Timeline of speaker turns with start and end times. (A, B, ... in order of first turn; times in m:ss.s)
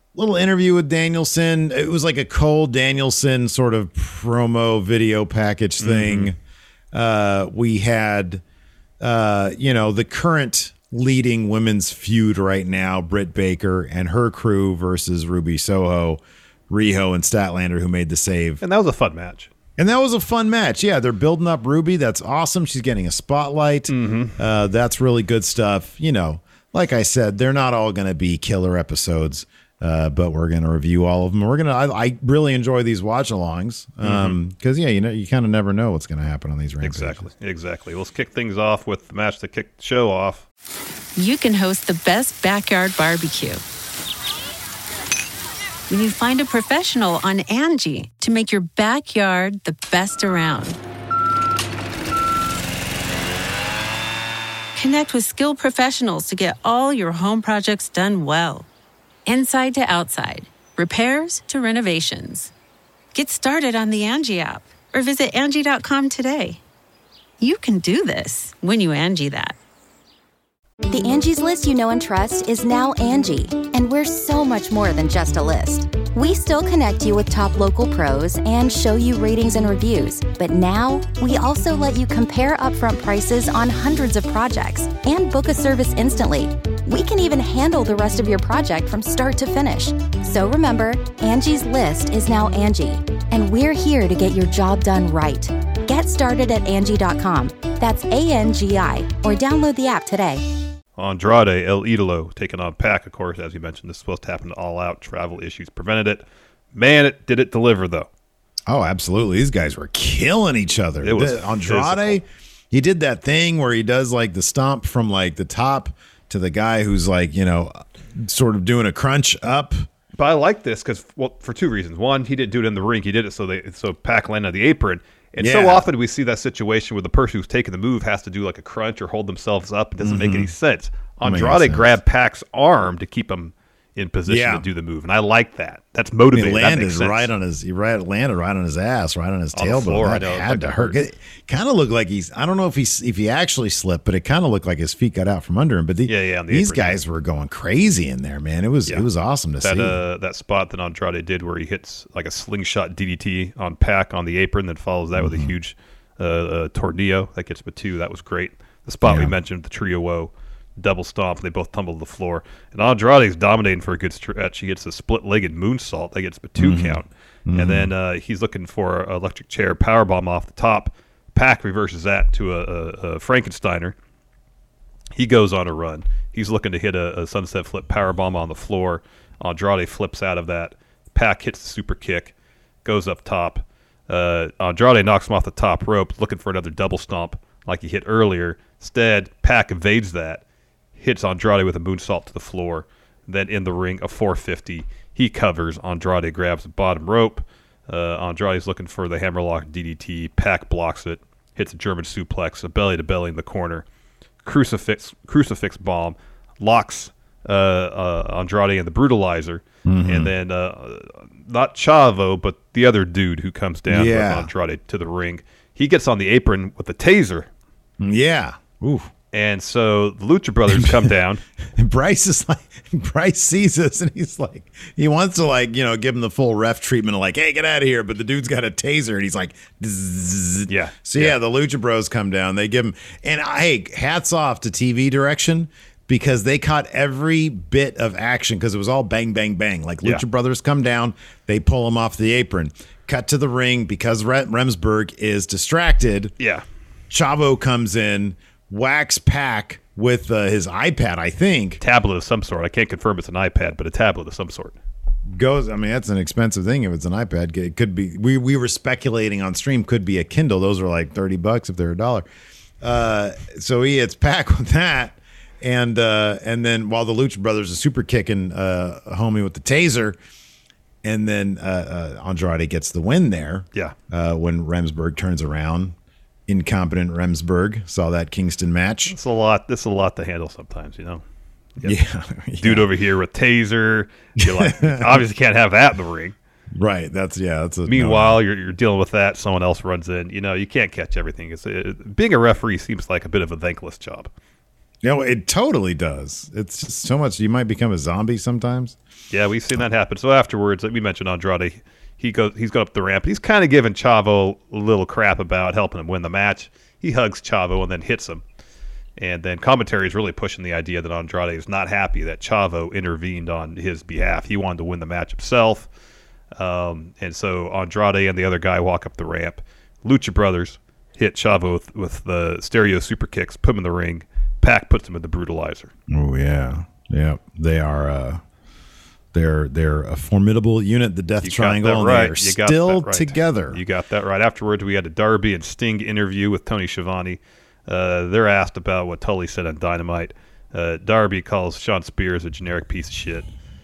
0:00.1-0:06.4 A
0:05.8-0:06.3 B
0:06.9-0:08.4 A
0:09.0-0:18.6 A
0:18.6-0:19.5 B
0:19.8-0:37.3 A
0:23.9-0:24.4 B
0:34.0-0:34.4 B
0:36.8-0:40.4 B
0:41.2-0:43.6 C
0:45.9-0:50.8 C
0:54.7-0:58.7 C
0:59.2-1:02.5 C
1:03.1-1:06.6 C
1:07.4-1:09.6 C
1:10.9-1:40.4 D
1:41.0-1:48.1 B
1:48.7-1:59.9 A
1:51.0-1:52.2 B
2:00.2-2:17.3 B
2:05.4-2:05.9 A
2:10.0-2:10.5 A
2:11.2-2:11.9 A
2:14.3-2:14.7 A
2:16.3-2:30.0 A
2:19.5-2:21.0 B
2:26.0-2:27.0 B
2:29.6-2:54.0 B
2:35.2-2:35.5 A
2:39.0-2:39.3 A
2:46.6-2:47.9 A
2:55.1-3:02.3 B
3:02.8-3:10.4 B
3:11.0-3:23.8 B
3:24.4-3:37.5 B
3:29.8-3:30.3 A
3:33.9-3:34.5 A
3:38.0-3:39.1 A
3:39.3-3:41.4 B
3:40.7-3:41.1 A
3:41.8-4:06.3 A
3:50.7-3:51.4 B
4:07.1-4:11.8 A
4:11.8-4:14.8 B
4:15.3-4:22.2 A
4:22.8-4:30.2 A
4:31.0-4:35.9 A
4:36.5-4:39.1 A
4:39.1-4:41.2 B
4:41.8-4:42.9 A
4:42.6-4:46.3 B
4:44.4-4:45.2 A
4:46.7-4:48.4 A
4:47.9-4:54.3 B
4:55.0-4:59.0 A
4:59.3-5:08.4 B
5:09.2-5:15.9 B
5:16.5-5:25.9 B
5:26.1-5:28.4 A
5:29.3-5:33.8 A
5:31.4-5:43.5 B